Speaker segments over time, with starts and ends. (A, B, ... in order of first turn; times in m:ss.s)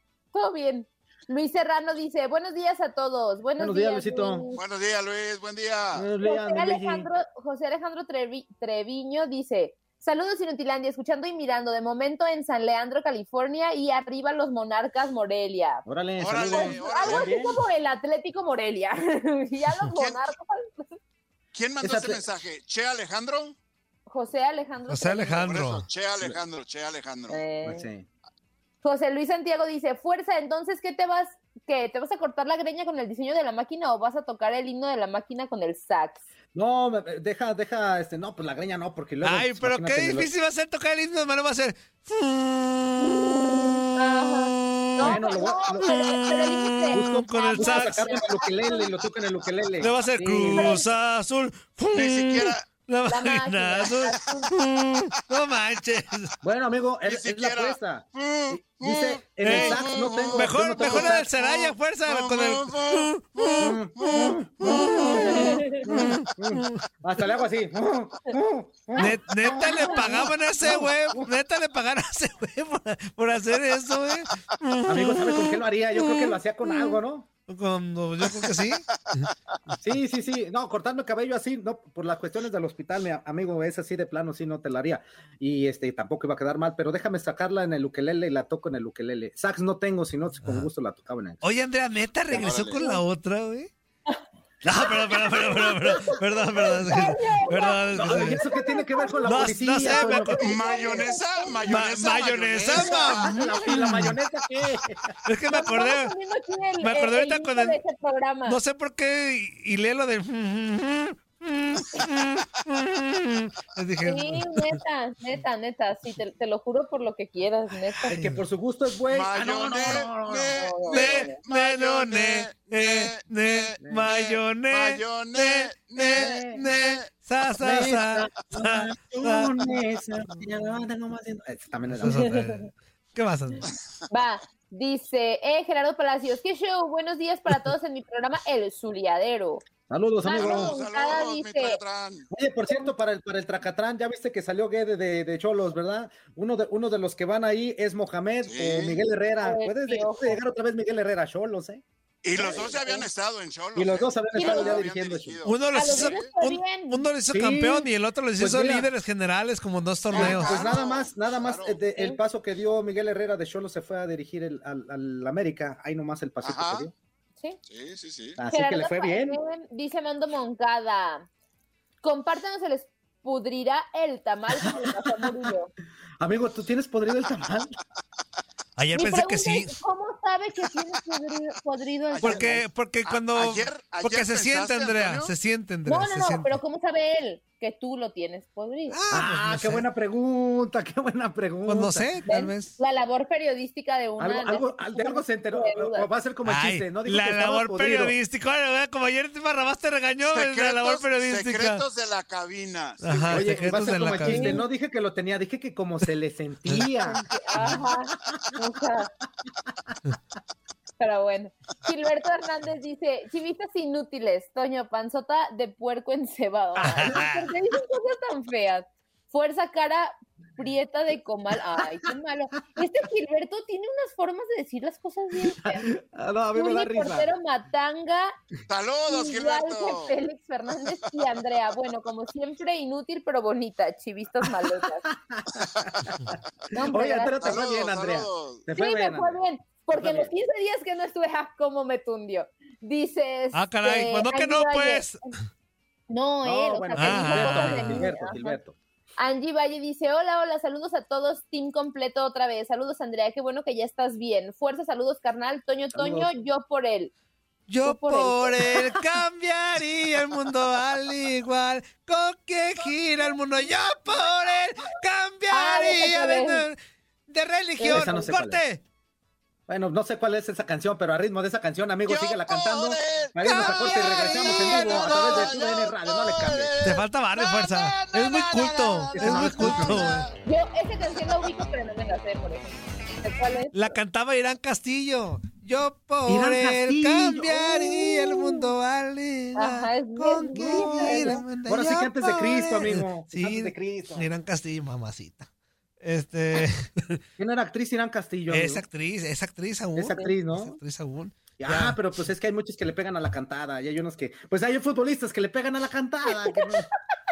0:00.3-0:04.6 A
0:03.6-0:04.4 B
0:04.5-0:06.0 C
0:05.9-0:07.1 B
0:06.2-0:15.8 A
0:15.9-0:17.6 B
0:16.2-0:17.3 C
0:16.5-0:21.0 A
0:20.0-0:20.2 C
0:21.5-0:23.6 C
0:21.8-0:22.2 B
0:24.1-0:25.4 A
0:24.9-0:25.9 D
0:25.4-0:27.4 C
0:27.3-0:27.9 A
0:27.6-0:28.1 B
0:28.8-0:36.3 A
0:36.5-0:40.3 B
0:39.2-0:45.3 D
0:43.0-0:48.9 A
0:45.0-0:46.0 B
0:45.8-0:48.2 D
0:46.9-0:50.8 B
0:49.8-0:56.3 D
0:50.5-0:50.9 A
0:51.9-0:52.7 C
0:53.1-0:54.5 A
0:56.4-1:01.3 B
0:57.1-1:04.4 C
0:59.4-1:03.8 D
1:03.6-1:11.3 B
1:04.6-1:05.9 A
1:04.6-1:06.8 D
1:09.0-1:16.3 D
1:09.0-1:10.1 A
1:14.9-1:17.3 B
1:16.7-1:16.9 A
1:17.5-1:18.8 D
1:18.3-1:19.1 C
1:19.8-1:31.4 B
1:31.4-1:33.7 D
1:32.3-1:32.8 C
1:32.8-1:33.0 A
1:34.6-1:38.4 D
1:34.8-1:41.8 A
1:37.9-1:41.1 B
1:39.2-1:40.4 D
1:40.4-1:43.3 C
1:41.7-1:44.2 D
1:42.8-1:45.1 B
1:43.2-1:43.7 A
1:45.2-1:46.1 D
1:45.5-1:48.6 A
1:46.8-1:47.8 D
1:48.5-1:54.8 D
1:54.0-1:58.1 A
1:58.0-1:58.4 D
1:58.1-2:00.7 B
1:59.1-2:07.1 C
2:00.6-2:01.4 A
2:00.9-2:09.5 D
2:03.8-2:04.1 B
2:06.2-2:06.6 B
2:07.6-2:12.6 B
2:12.0-2:13.6 D
2:12.1-2:12.7 A
2:14.1-2:19.6 A
2:19.9-2:20.8 B
2:20.2-2:21.8 A
2:20.3-2:22.3 C
2:22.3-2:31.8 B
2:28.4-2:29.0 C
2:29.4-2:30.4 A
2:32.2-2:36.3 C
2:32.4-2:33.1 A
2:33.8-2:35.4 B
2:34.3-2:34.8 A
2:35.4-2:40.7 D
2:35.7-2:37.1 A
2:37.3-2:38.9 B
2:40.1-2:41.8 C
2:40.1-2:46.9 B
2:46.4-2:46.9 C
2:47.6-2:48.4 C
2:48.4-2:49.4 B
2:48.5-2:51.3 A
2:52.0-2:55.7 A
2:56.2-2:57.8 B
2:58.8-2:59.7 D
2:58.9-3:02.6 A
3:02.1-3:02.5 C
3:02.2-3:06.6 D
3:03.0-3:05.3 C
3:05.9-3:09.0 A
3:08.9-3:09.8 D
3:09.1-3:12.1 B
3:11.7-3:12.8 D
3:12.3-3:16.1 A
3:14.2-3:18.2 B
3:16.4-3:21.8 D
3:20.3-3:23.7 C
3:23.0-3:24.6 D
3:23.3-3:27.8 B
3:24.2-3:24.6 A
3:27.0-3:29.1 A
3:31.0-3:45.9 A
3:36.8-3:37.5 D
3:36.8-3:37.2 B
3:45.4-3:47.3 B
3:46.5-3:48.3 A
3:48.7-3:50.2 C
3:49.1-3:55.0 A
3:54.4-3:59.4 B
3:55.6-3:56.2 C
3:56.7-3:57.6 A
3:57.4-3:58.6 C
3:58.7-4:05.0 A
3:59.9-4:00.3 B
4:03.5-4:05.2 D
4:06.1-4:08.6 A
4:06.4-4:08.8 B
4:07.0-4:08.1 D
4:09.2-4:17.1 A
4:15.9-4:16.3 B
4:17.7-4:28.8 D
4:17.8-4:18.8 A
4:25.5-4:26.6 A
4:27.8-4:28.3 A
4:27.8-4:28.6 B
4:29.7-4:36.7 B
4:32.1-4:40.3 C
4:33.4-4:35.5 D
4:36.8-4:40.3 D
4:39.2-4:40.2 B
4:40.4-4:44.0 A
4:43.7-4:55.5 D
4:46.3-4:48.6 B
4:49.6-4:51.4 A
4:50.5-4:54.3 B
4:56.0-4:57.2 D
4:57.4-4:58.8 B
4:58.5-5:02.0 D
5:00.0-5:00.8 B
5:01.6-5:06.9 B